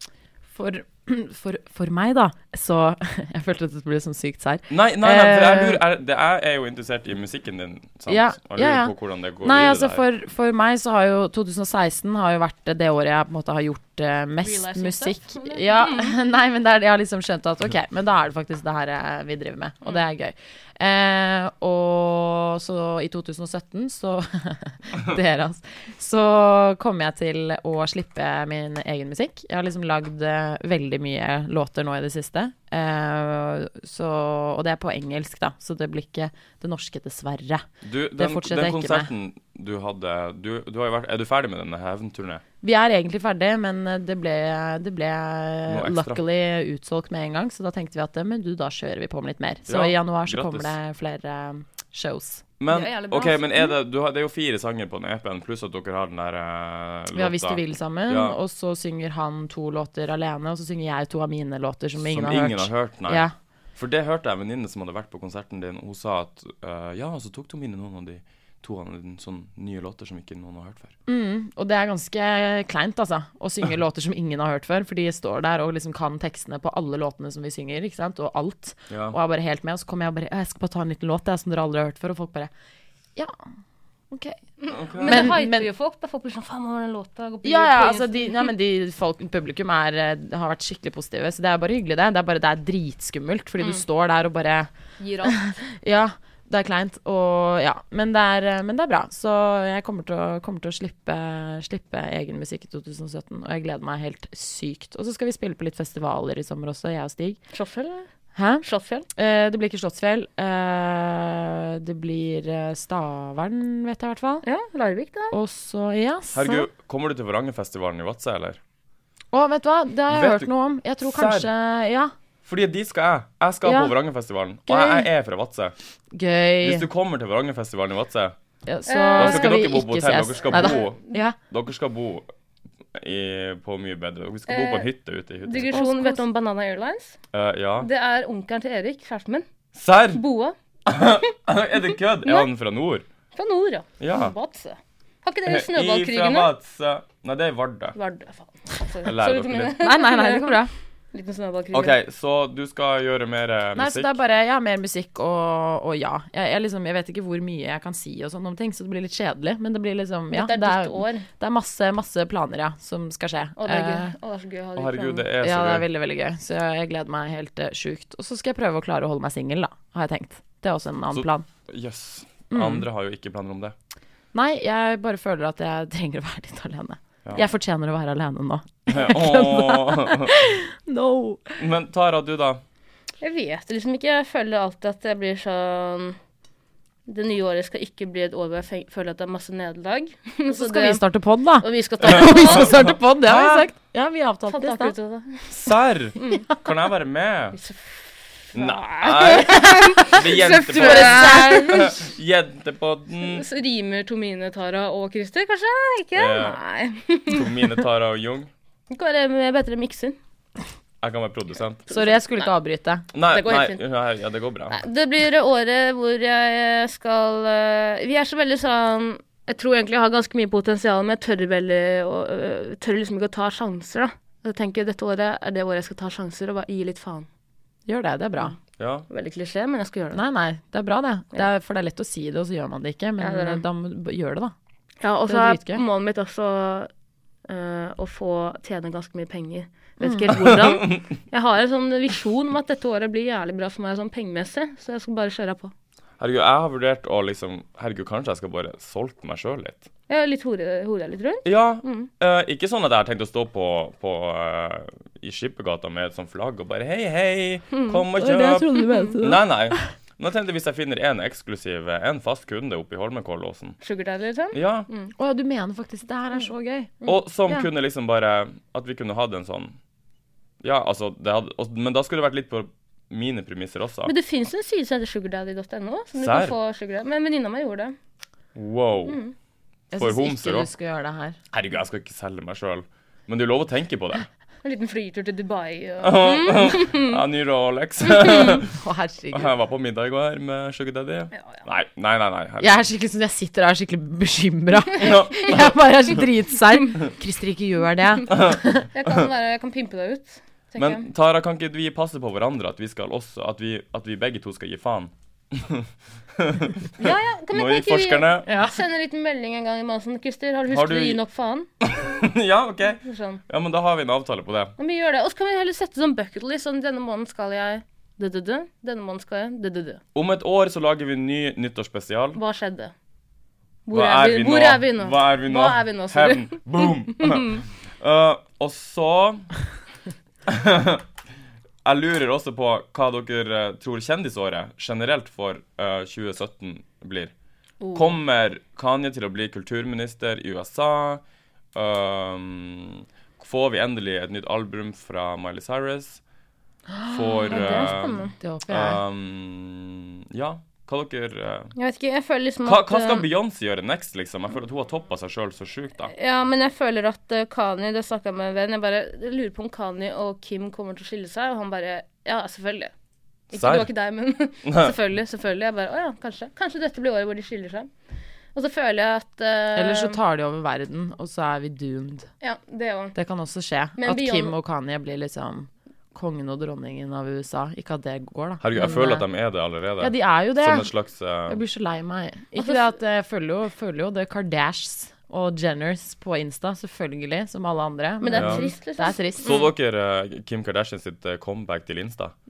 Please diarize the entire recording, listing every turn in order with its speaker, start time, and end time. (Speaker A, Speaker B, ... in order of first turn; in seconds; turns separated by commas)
Speaker A: 0.5-5.8, Speaker B: 4.7-10.0, Speaker A: 8.1-39.1, Speaker C: 14.4-16.1, Speaker B: 37.8-42.4, Speaker A: 42.6-52.4, Speaker B: 45.7-46.2, Speaker B: 49.7-50.7, Speaker B: 52.6-58.4, Speaker C: 52.7-53.7, Speaker A: 57.1-63.3, Speaker B: 62.0-70.9, Speaker A: 71.1-82.5, Speaker B: 78.9-79.2, Speaker A: 84.1-84.4, Speaker C: 84.6-88.5, Speaker B: 84.7-85.3, Speaker A: 85.0-85.7, Speaker A: 87.4-94.7, Speaker C: 95.0-95.4, Speaker A: 95.2-107.4, Speaker C: 107.5-108.1, Speaker A: 108.3-114.4, Speaker C: 108.6-109.1, Speaker C: 114.4-115.3, Speaker A: 115.3-116.7, Speaker B: 116.3-118.6, Speaker A: 119.3-122.1, Speaker B: 120.1-120.5, Speaker B: 121.0-121.5, Speaker B: 122.4-125.7, Speaker A: 123.6-123.9, Speaker A: 124.7-125.1, Speaker A: 126.1-126.9, Speaker B: 126.6-128.3, Speaker A: 128.7-131.4, Speaker C: 128.8-129.5, Speaker B: 129.2-132.3, Speaker C: 130.5-131.2, Speaker B: 132.9-135.8, Speaker C: 134.5-134.9, Speaker C: 135.4-137.2, Speaker A: 135.7-136.2, Speaker B: 137.3-137.9, Speaker C: 137.8-139.4, Speaker B: 139.7-140.2, Speaker C: 140.1-140.6, Speaker B: 140.8-143.0, Speaker C: 143.3-146.5, Speaker B: 144.0-144.3, Speaker B: 145.4-147.9, Speaker C: 147.9-150.6, Speaker B: 149.0-149.8, Speaker A: 149.8-150.7, Speaker C: 151.1-151.9, Speaker B: 151.7-154.2, Speaker A: 153.8-164.1, Speaker C: 160.3-161.3, Speaker C: 163.6-165.3, Speaker B: 164.8-165.9, Speaker A: 165.4-171.5, Speaker B: 171.1-173.7, Speaker A: 172.5-172.8, Speaker A: 174.3-181.6, Speaker B: 178.9-180.3, Speaker B: 181.6-182.6, Speaker C: 183.2-186.2, Speaker C: 187.1-191.0, Speaker A: 190.5-194.9, Speaker C: 191.6-192.9, Speaker B: 192.1-193.7, Speaker C: 194.5-195.5, Speaker B: 195.5-197.6, Speaker C: 196.2-196.5, Speaker C: 197.5-201.9, Speaker B: 198.5-203.4, Speaker A: 199.6-202.0, Speaker C: 203.2-207.5, Speaker B: 206.1-206.6, Speaker B: 207.3-208.5, Speaker C: 208.9-210.2, Speaker B: 211.0-211.8, Speaker C: 211.9-212.2, Speaker A: 211.9-213.1, Speaker B: 213.1-214.8, Speaker C: 213.3-213.8, Speaker C: 214.7-227.3, Speaker A: 227.8-228.6, Speaker B: 228.8-229.1, Speaker C: 229.1-230.2, Speaker A: 230.1-234.5, Speaker C: 233.2-233.6, Speaker C: 235.0-236.9, Speaker A: 235.2-235.8, Speaker C: 237.4-245.7, Speaker A: 240.0-240.6, Speaker B: 240.5-241.0, Speaker B: 246.2-249.8, Speaker C: 250.1-252.1, Speaker B: 251.4-263.8, Speaker C: 257.7-258.0, Speaker A: 258.1-259.8, Speaker C: 258.7-259.2, Speaker C: 263.8-265.1, Speaker B: 264.5-264.9, Speaker A: 265.2-266.9, Speaker B: 267.1-269.8, Speaker B: 270.6-274.1, Speaker C: 274.1-277.9, Speaker B: 276.1-276.5, Speaker B: 278.6-279.2, Speaker C: 279.1-279.3, Speaker A: 279.9-281.4, Speaker B: 279.9-280.7, Speaker B: 281.5-284.3, Speaker C: 284.6-287.2, Speaker B: 286.0-288.7, Speaker C: 288.1-288.6, Speaker A: 288.6-289.5, Speaker B: 289.3-292.9, Speaker C: 291.4-291.6, Speaker A: 292.6-298.9, Speaker B: 295.0-295.7, Speaker B: 298.3-299.2, Speaker C: 298.9-301.1, Speaker B: 300.8-308.5, Speaker C: 307.0-311.7, Speaker A: 308.5-308.8, Speaker B: 310.7-311.2, Speaker B: 311.8-314.7, Speaker C: 313.0-313.4, Speaker C: 314.8-320.0, Speaker B: 320.1-322.4, Speaker C: 322.4-322.9, Speaker C: 323.9-327.6, Speaker B: 323.9-329.5, Speaker B: 330.5-331.0, Speaker B: 331.8-337.3, Speaker C: 337.8-338.1, Speaker B: 337.9-341.2, Speaker B: 341.7-346.2, Speaker A: 346.9-349.0, Speaker B: 347.1-351.7, Speaker C: 347.5-348.3, Speaker C: 351.7-353.2, Speaker B: 352.6-356.1, Speaker C: 356.1-362.9, Speaker C: 363.5-367.9, Speaker B: 363.5-363.9, Speaker B: 364.6-364.9, Speaker C: 368.5-370.2, Speaker A: 369.7-372.3, Speaker C: 372.4-373.1, Speaker A: 373.1-379.2, Speaker C: 374.0-374.5, Speaker B: 378.6-381.6, Speaker A: 380.0-380.9, Speaker A: 381.5-389.7, Speaker C: 382.6-382.9, Speaker C: 388.2-389.6, Speaker B: 388.3-388.6, Speaker B: 389.4-392.3